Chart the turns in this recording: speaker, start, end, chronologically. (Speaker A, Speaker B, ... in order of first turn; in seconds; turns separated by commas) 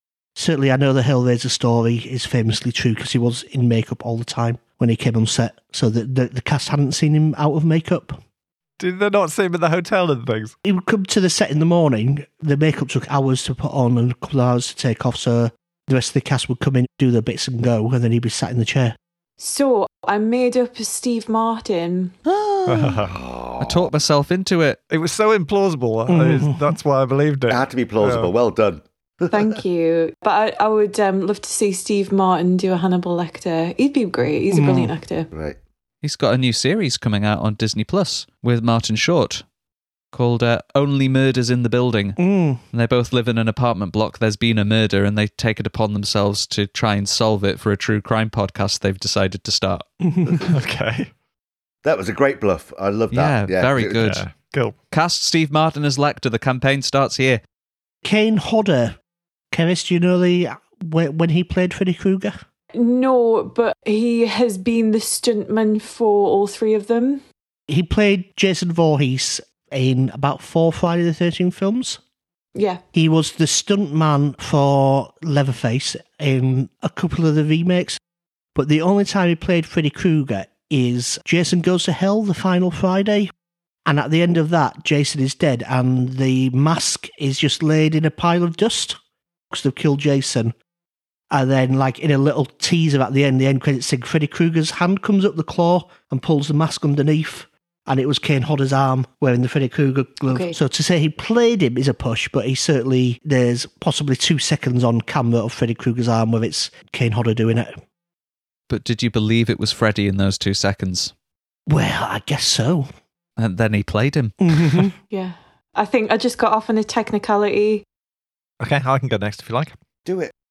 Speaker A: 0.3-8.2, Speaker B: 8.8-10.5, Speaker A: 10.6-19.0, Speaker C: 19.4-22.1, Speaker D: 22.2-23.0, Speaker B: 22.6-23.1, Speaker E: 23.0-23.9, Speaker D: 23.6-24.8, Speaker B: 24.9-28.3, Speaker A: 26.1-26.8, Speaker E: 27.5-29.6, Speaker C: 29.3-35.3, Speaker A: 34.5-34.9, Speaker E: 35.3-35.6, Speaker D: 36.0-39.4, Speaker D: 40.1-42.2, Speaker A: 42.2-42.6, Speaker D: 42.7-49.8, Speaker A: 50.1-50.4, Speaker B: 50.3-51.1, Speaker E: 51.8-54.1, Speaker D: 53.1-54.2, Speaker B: 54.0-54.7, Speaker D: 54.9-57.4, Speaker A: 58.0-59.0, Speaker A: 59.5-62.4, Speaker C: 62.7-67.2, Speaker A: 67.7-72.0, Speaker C: 72.5-72.8, Speaker A: 72.9-78.0, Speaker A: 78.5-83.3, Speaker A: 83.8-89.0, Speaker A: 89.5-90.5, Speaker A: 91.3-107.7, Speaker C: 100.3-100.6, Speaker D: 108.7-111.1, Speaker A: 111.7-112.9, Speaker D: 113.4-114.8, Speaker A: 114.4-114.9, Speaker C: 115.1-117.8, Speaker B: 118.6-119.7, Speaker E: 120.0-120.3